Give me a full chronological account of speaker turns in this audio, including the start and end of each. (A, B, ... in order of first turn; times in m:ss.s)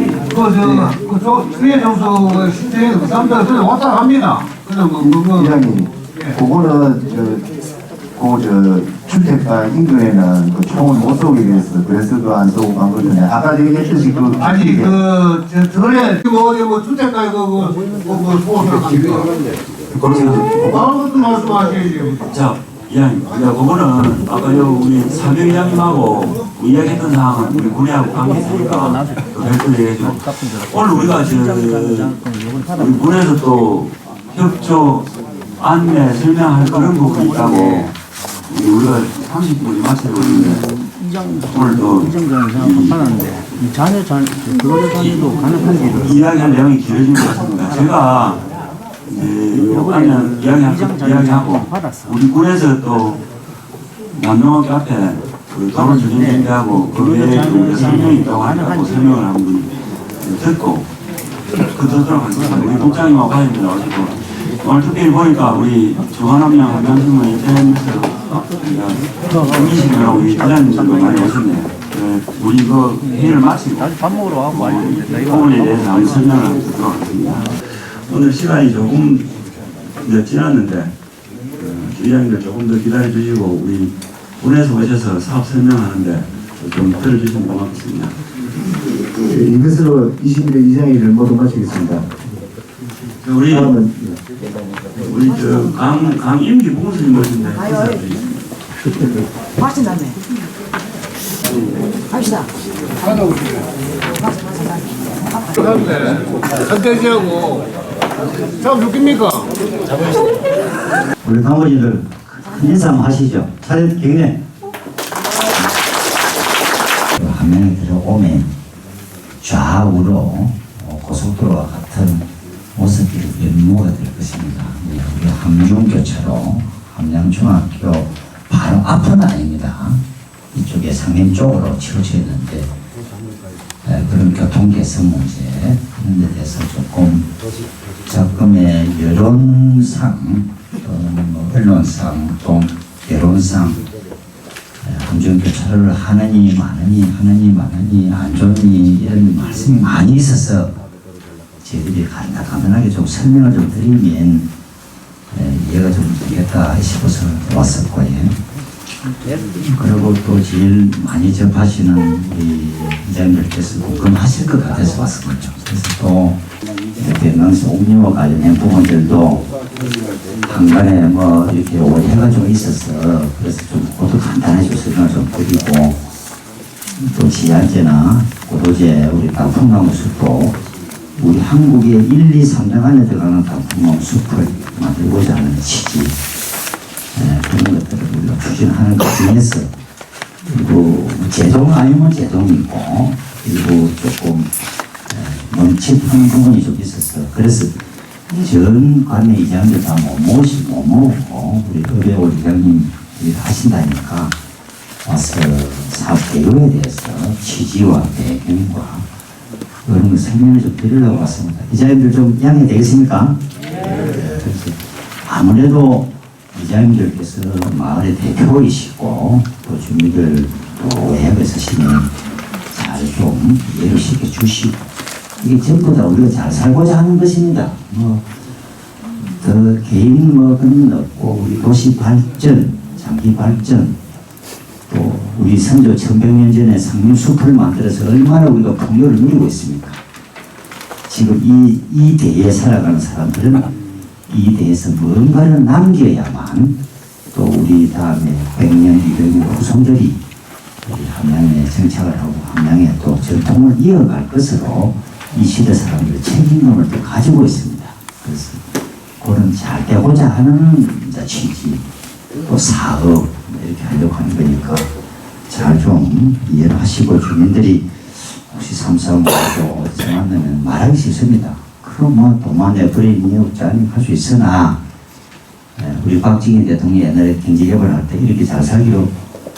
0:00.3-0:05.5 A
0:00.6-0:01.0 B
0:05.0-0:07.5 B
0:08.2-0:15.0 B
0:14.4-0:19.3 A
0:19.9-0:20.7 C
0:20.8-0:22.2 A
0:22.3-0:37.9 C
0:38.5-0:40.8 C
0:41.4-0:43.4 C
0:42.1-0:45.6 D
0:44.9-0:48.5 C
0:49.1-0:53.2 C
0:50.7-0:51.9 D
0:54.2-1:00.9 C
0:57.0-0:59.2 D
1:01.6-1:19.3 C
1:20.0-1:20.9 C
1:21.6-1:28.2 C
1:28.9-1:32.2 B
1:33.2-1:33.8 C
1:33.5-1:34.2 B
1:35.0-1:38.3 C
1:45.6-1:47.6 A
1:48.6-1:49.4 A
1:51.2-1:54.4 E
1:57.2-1:58.5 E
1:59.4-2:12.7 E
2:13.8-2:17.3 E
2:18.0-2:23.8 E
2:24.8-2:30.8 E
2:31.6-2:34.5 E
2:35.3-2:38.4 E
2:39.5-2:49.5 E
2:50.4-2:56.0 E
2:57.0-3:00.6 E
3:01.2-3:06.2 E
3:07.1-3:09.7 E
3:10.4-3:14.5 E
3:15.1-3:24.4 E
3:25.0-3:29.1 E
3:29.8-3:42.2 E
3:42.7-3:44.8 E
3:45.4-3:48.3 E
3:49.2-3:54.0 E
3:54.9-4:00.0 E
4:01.1-4:03.8 E
4:04.3-4:06.8 E
4:07.3-4:10.2 E
4:10.8-4:18.6 E
4:19.2-4:21.8 E
4:22.4-4:24.9 E
4:25.5-4:34.8 E
4:35.8-4:39.1 E